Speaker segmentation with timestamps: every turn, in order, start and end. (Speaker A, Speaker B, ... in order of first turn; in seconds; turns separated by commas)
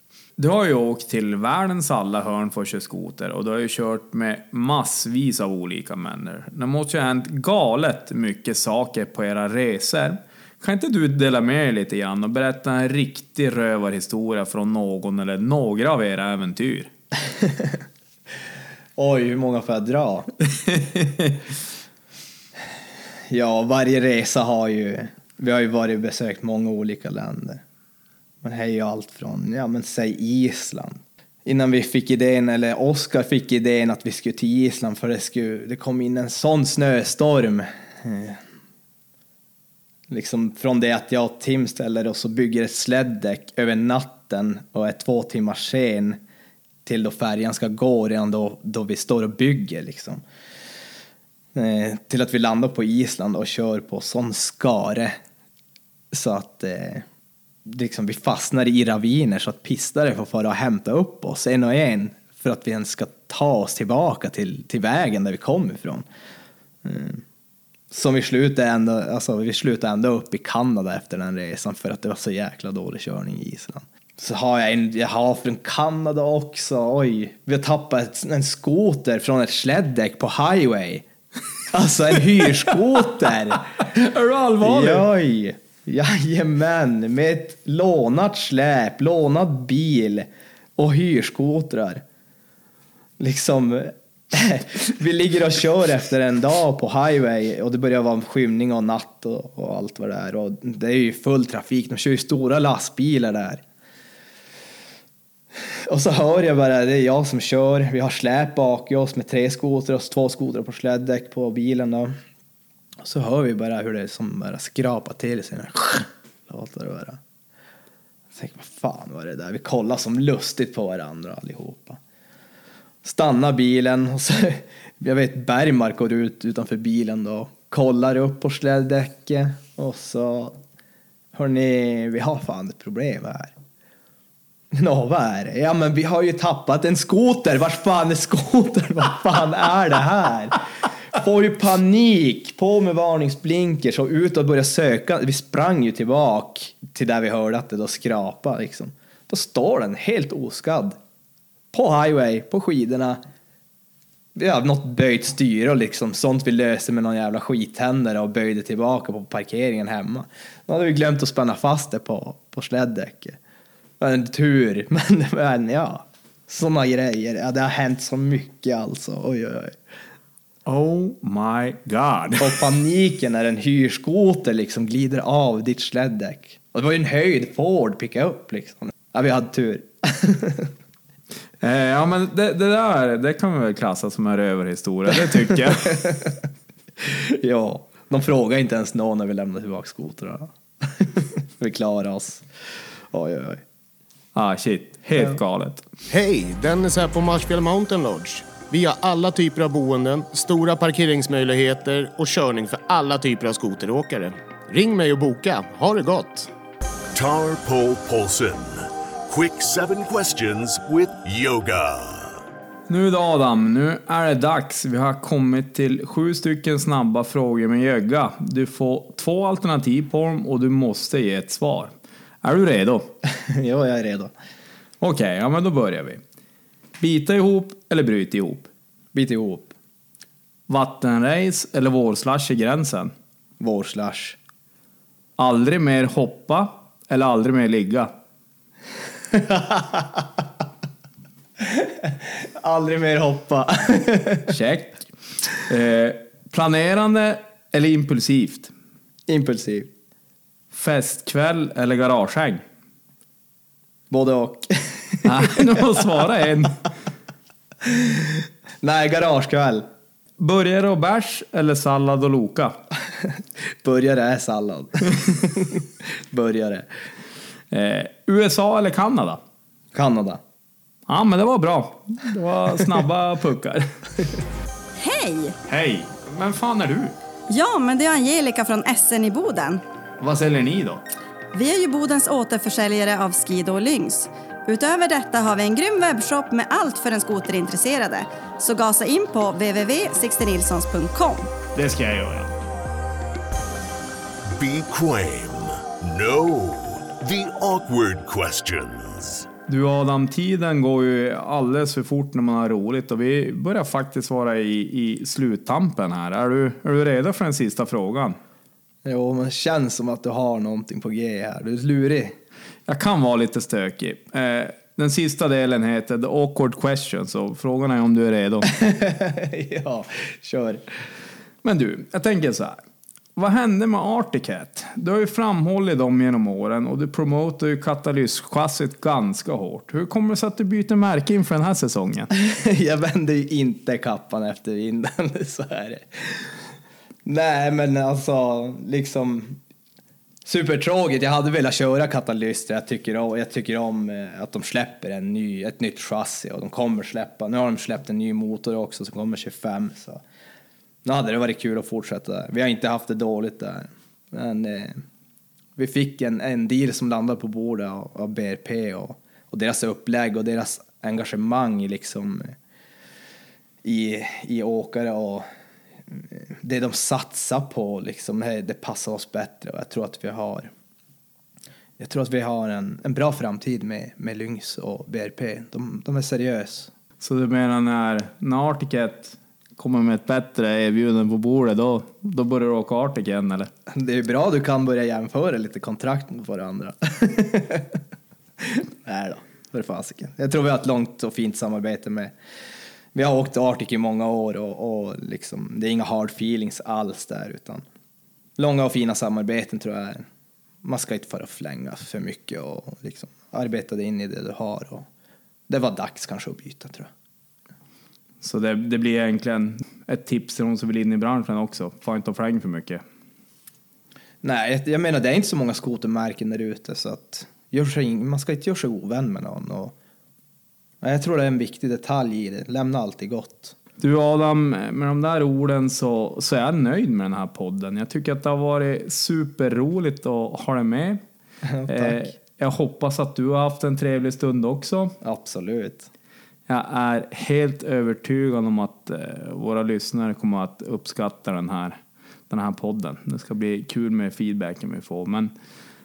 Speaker A: 0.4-16.9, Speaker B: 17.4-17.8, Speaker B: 19.0-20.3, Speaker B: 23.3-27.6, Speaker B: 28.4-38.4, Speaker B: 40.1-46.2, Speaker B: 46.8-50.2, Speaker B: 51.5-55.2, Speaker B: 56.1-57.0, Speaker B: 57.6-66.0, Speaker B: 66.8-67.2, Speaker B: 67.9-81.0, Speaker B: 81.7-83.8, Speaker A: 83.8-85.1, Speaker B: 84.6-92.0, Speaker B: 93.2-103.6, Speaker B: 105.9-112.1, Speaker B: 113.0-117.2, Speaker B: 118.3-122.0, Speaker B: 123.0-130.6, Speaker B: 131.3-133.5, Speaker B: 134.7-140.6, Speaker B: 141.1-151.0, Speaker B: 151.7-153.2, Speaker B: 154.3-163.4, Speaker B: 164.0-169.8, Speaker A: 170.7-172.7, Speaker B: 172.4-180.7, Speaker A: 181.6-186.2, Speaker B: 187.0-192.4, Speaker B: 193.1-193.6, Speaker A: 194.3-195.8, Speaker C: 196.1-206.5, Speaker D: 207.1-212.4, Speaker A: 212.9-223.1, Speaker B: 223.3-224.3, Speaker A: 225.0-226.2, Speaker A: 227.0-228.7, Speaker B: 229.1-229.7, Speaker A: 230.7-233.1, Speaker B: 233.6-234.4, Speaker A: 235.4-238.1, Speaker B: 239.3-240.2, Speaker B: 241.6-244.5, Speaker A: 244.5-248.7, Speaker B: 249.3-249.9, Speaker A: 250.7-252.6, Speaker B: 254.1-255.9, Speaker A: 255.2-256.8, Speaker B: 257.8-259.9, Speaker A: 260.4-262.8, Speaker B: 263.8-266.9, Speaker A: 267.7-269.4, Speaker B: 269.9-270.4, Speaker A: 271.1-273.9, Speaker E: 275.0-275.5, Speaker A: 275.7-277.1, Speaker E: 277.5-279.8, Speaker A: 280.2-281.0, Speaker E: 281.5-291.5, Speaker A: 291.7-292.6, Speaker D: 294.5-299.5, Speaker A: 299.7-308.4, Speaker B: 309.0-312.4, Speaker A: 312.9-318.7, Speaker B: 318.7-320.8, Speaker A: 321.6-322.8, Speaker A: 323.4-332.3, Speaker B: 332.3-336.5, Speaker B: 337.2-339.6, Speaker B: 340.4-350.2, Speaker B: 351.0-355.0, Speaker B: 355.8-362.5, Speaker B: 363.8-365.5, Speaker B: 366.1-370.7, Speaker B: 372.0-376.9, Speaker A: 377.2-383.7, Speaker B: 383.9-388.0, Speaker B: 388.6-392.3, Speaker B: 393.1-397.8, Speaker B: 398.6-400.2, Speaker B: 400.8-405.1, Speaker B: 405.7-407.1, Speaker A: 408.4-413.0, Speaker B: 414.4-419.9, Speaker B: 421.0-423.7, Speaker A: 424.0-431.2, Speaker B: 431.6-432.3, Speaker A: 431.9-435.1, Speaker B: 435.2-436.1, Speaker A: 436.7-442.0, Speaker A: 442.5-445.5